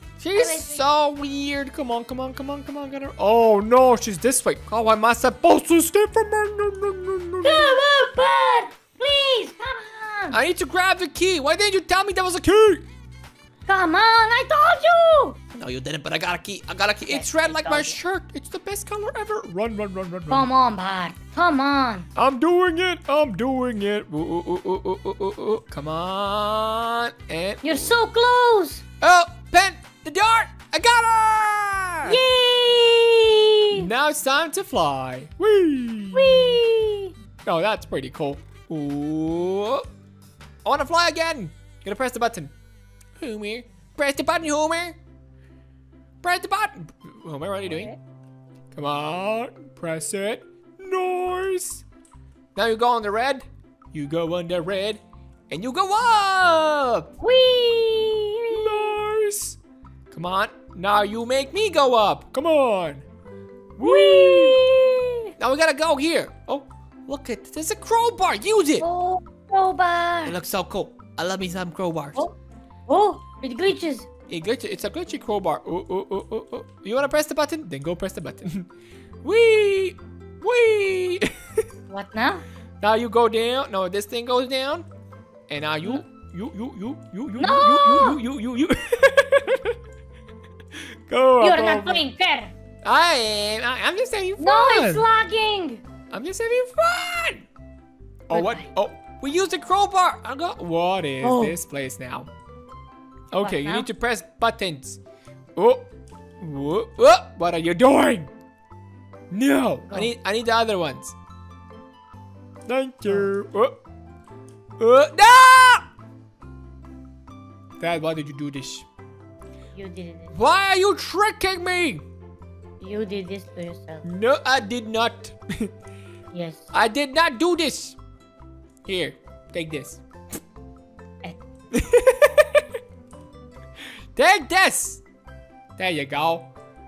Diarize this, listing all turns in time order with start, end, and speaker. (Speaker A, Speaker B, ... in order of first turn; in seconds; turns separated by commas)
Speaker A: 0.2-7.8, Speaker B: 0.3-0.8, Speaker B: 7.4-10.4, Speaker A: 10.3-12.8, Speaker B: 13.7-15.4, Speaker A: 15.5-20.5, Speaker B: 17.1-18.0, Speaker B: 20.3-22.1, Speaker A: 22.1-27.9, Speaker B: 27.6-28.8, Speaker A: 29.0-32.2, Speaker B: 32.0-33.9, Speaker A: 33.7-36.6, Speaker B: 36.1-37.1, Speaker A: 37.4-39.8, Speaker A: 40.6-42.5, Speaker A: 43.2-45.0, Speaker A: 46.2-47.9, Speaker B: 47.6-48.0, Speaker A: 48.7-51.8, Speaker A: 52.5-57.1, Speaker B: 57.2-59.0, Speaker A: 58.5-59.6, Speaker A: 60.1-63.0, Speaker A: 63.8-64.6, Speaker B: 63.8-65.3, Speaker A: 65.4-68.8, Speaker B: 68.8-70.3, Speaker A: 70.2-72.2, Speaker B: 72.9-74.1, Speaker A: 74.3-78.7, Speaker A: 79.2-81.3, Speaker B: 81.9-82.4, Speaker A: 82.8-84.8, Speaker A: 85.5-89.8, Speaker B: 87.4-88.2, Speaker A: 91.1-92.0, Speaker B: 91.4-92.5, Speaker A: 92.8-95.0, Speaker B: 94.4-95.8, Speaker A: 96.1-97.5, Speaker A: 98.3-102.3, Speaker B: 98.3-98.7, Speaker B: 101.2-101.5, Speaker A: 103.3-105.0, Speaker B: 103.4-103.9, Speaker A: 105.5-105.9, Speaker A: 106.4-108.3, Speaker A: 109.3-111.1, Speaker B: 109.9-110.1, Speaker A: 112.7-113.8, Speaker A: 114.8-115.8, Speaker A: 117.8-118.9, Speaker B: 119.7-120.4, Speaker A: 120.3-122.0, Speaker B: 122.8-124.0, Speaker A: 124.0-125.7, Speaker B: 126.3-126.6, Speaker A: 126.7-128.0, Speaker A: 128.8-130.0, Speaker A: 131.7-132.6, Speaker A: 134.1-135.0, Speaker A: 135.8-136.5